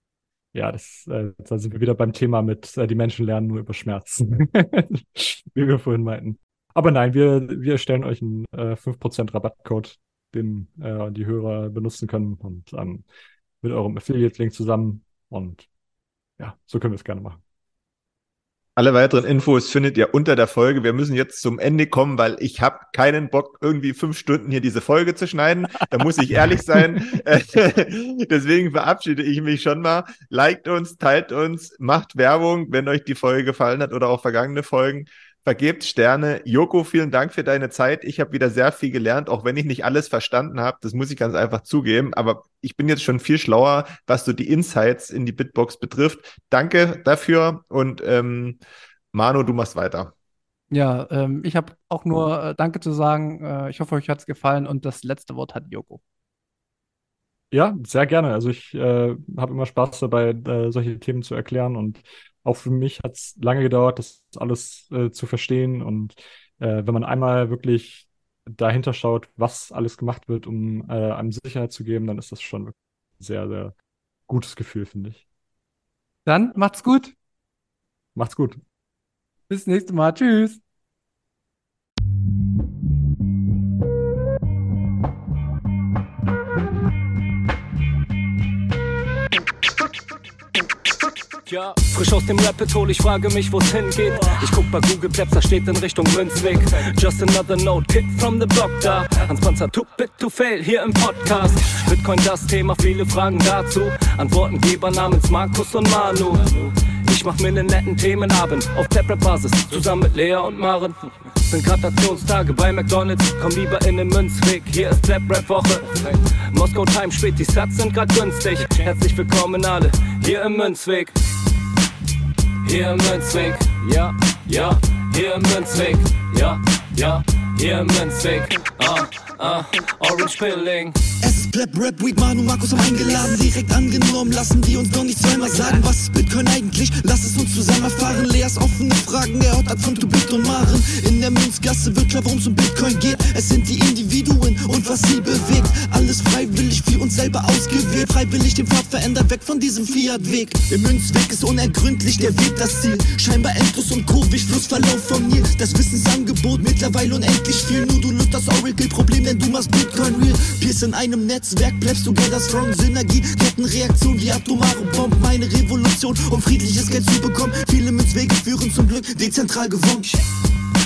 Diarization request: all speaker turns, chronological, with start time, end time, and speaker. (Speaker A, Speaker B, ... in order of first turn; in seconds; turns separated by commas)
Speaker A: 0.5-13.1, Speaker A: 13.6-15.7, Speaker A: 16.4-17.4, Speaker B: 18.8-48.6, Speaker B: 49.1-50.1, Speaker C: 50.7-56.0, Speaker A: 57.5-73.7, Speaker A: 74.3-75.2, Speaker C: 76.2-77.1, Speaker A: 78.1-78.6, Speaker C: 79.5-80.6, Speaker D: 91.5-121.2, Speaker D: 122.6-131.0, Speaker E: 131.2-170.2